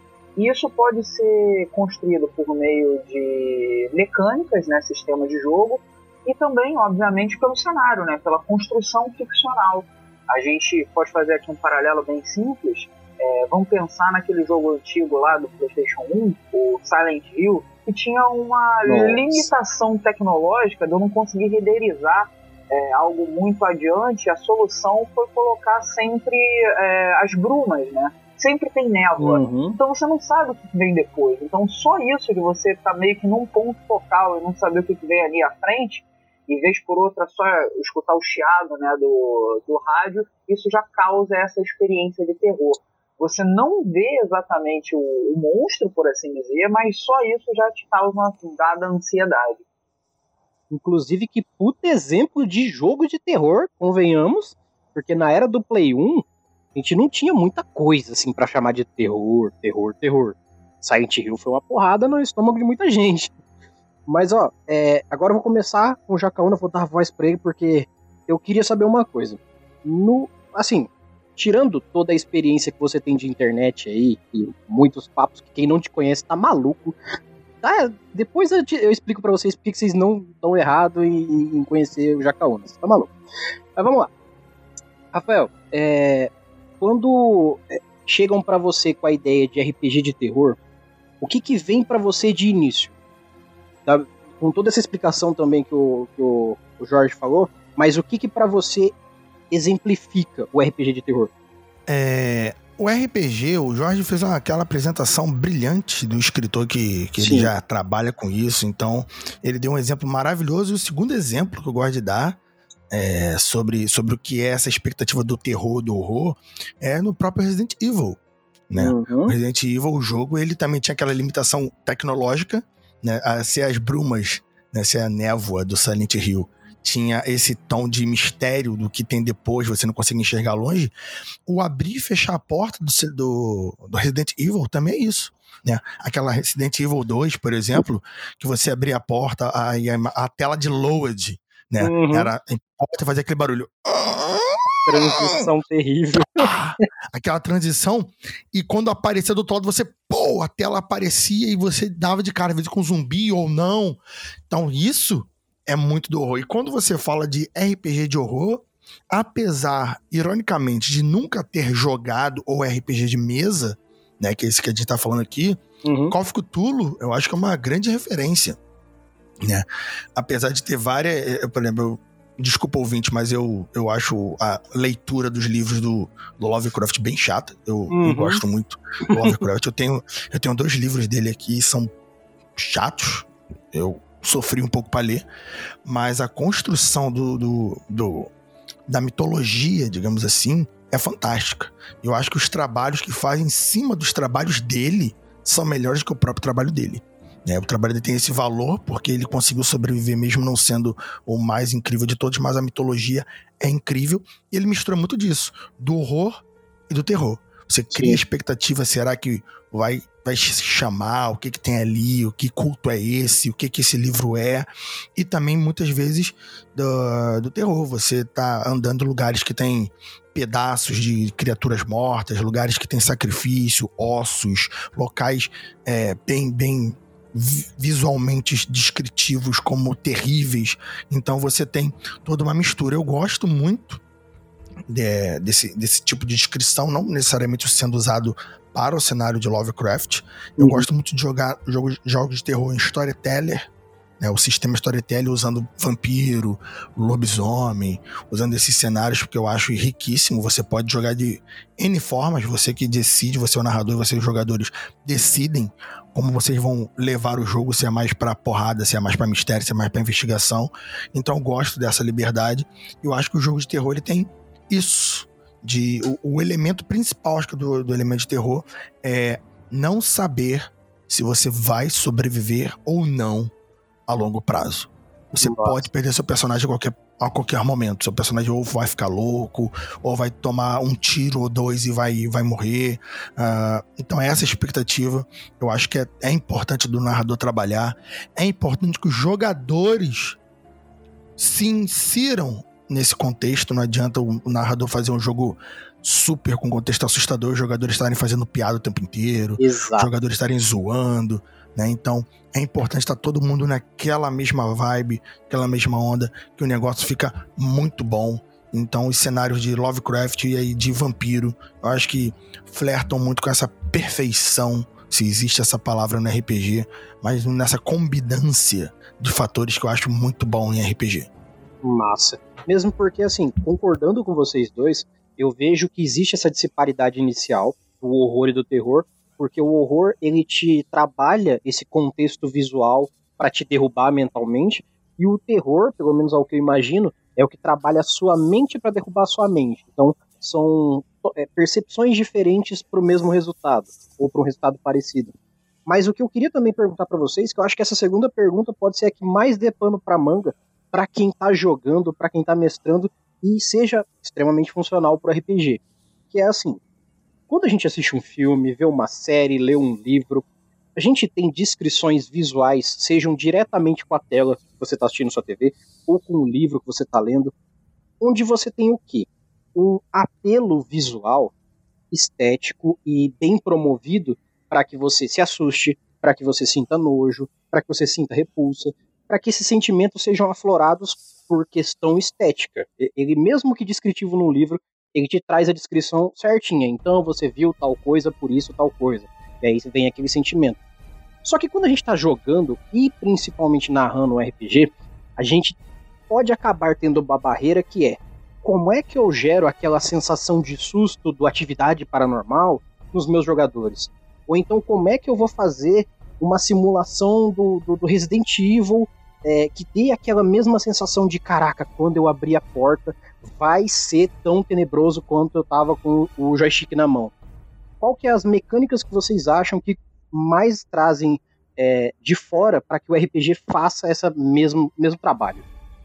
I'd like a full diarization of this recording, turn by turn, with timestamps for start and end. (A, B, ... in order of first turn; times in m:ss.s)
0:00.4-0:49.6 A
0:18.9-0:19.5 B
0:29.2-0:29.8 B
0:50.7-0:56.2 B
0:56.8-1:03.4 B
1:04.1-1:17.0 B
1:17.6-1:23.1 B
1:23.8-1:24.1 B
1:25.1-1:30.6 B
1:31.2-1:33.0 B
1:33.9-1:39.0 B
1:39.5-1:41.3 B
1:41.9-1:52.4 C
1:47.2-1:47.5 B
1:52.9-1:58.2 C
1:58.7-2:10.9 C
1:58.8-1:59.4 B
2:11.5-2:25.5 C
2:21.8-2:22.3 B
2:24.9-2:26.8 B
2:26.4-2:48.6 C
2:45.8-2:46.2 B
2:50.2-3:01.9 C
2:57.9-2:58.4 B
3:02.6-3:05.2 C
3:05.8-3:08.3 C
3:08.9-3:54.0 C
3:27.9-3:28.2 B
3:54.9-4:03.6 C
4:00.6-4:00.9 B
4:04.2-4:33.5 C
4:34.1-4:50.4 C
4:35.4-4:35.8 B
4:51.4-5:21.3 C
4:59.6-5:00.1 B
5:21.8-5:45.3 B
5:45.9-5:56.8 B
5:57.5-6:00.4 B
6:01.0-6:07.5 B
6:08.2-6:11.5 B
6:12.1-6:30.8 B
6:31.4-6:35.8 B
6:36.3-6:57.3 B
6:58.0-7:05.6 B